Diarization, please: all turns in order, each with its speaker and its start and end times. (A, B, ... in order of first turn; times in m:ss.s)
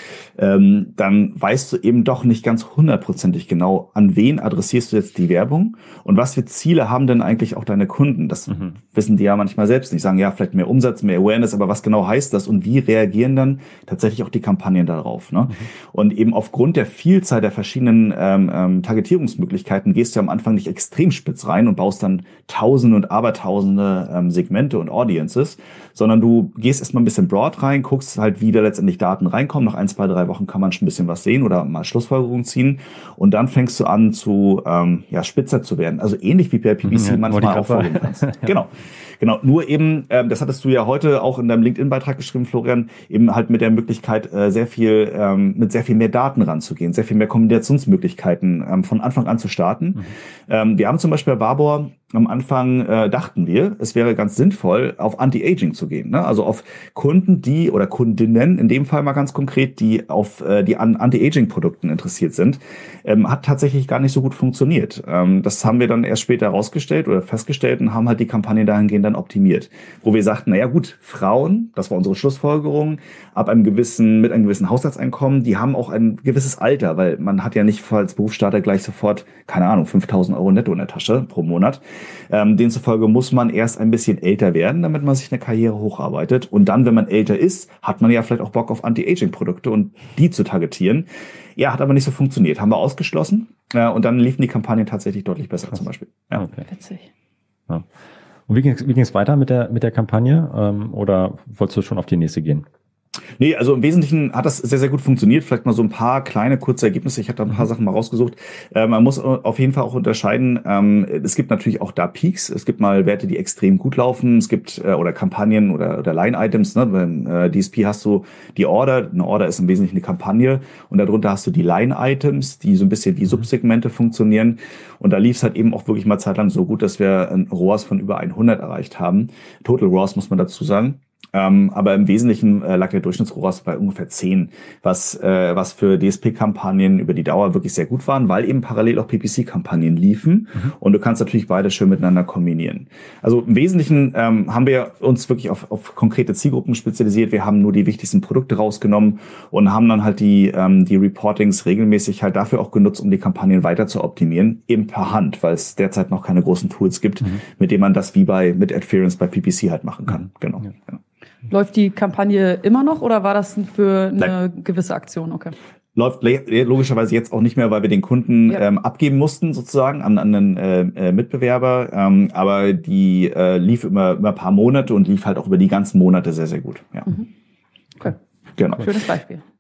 0:00.4-1:36.5 A
0:36.9-0:38.5 B
1:36.4-1:36.7 B
1:36.7-1:37.1 C
1:38.5-1:42.7 B
1:43.4-2:41.0 A
2:41.5-2:45.6 C
2:46.0-2:57.1 A
2:58.6-2:58.9 A
2:58.7-2:59.4 C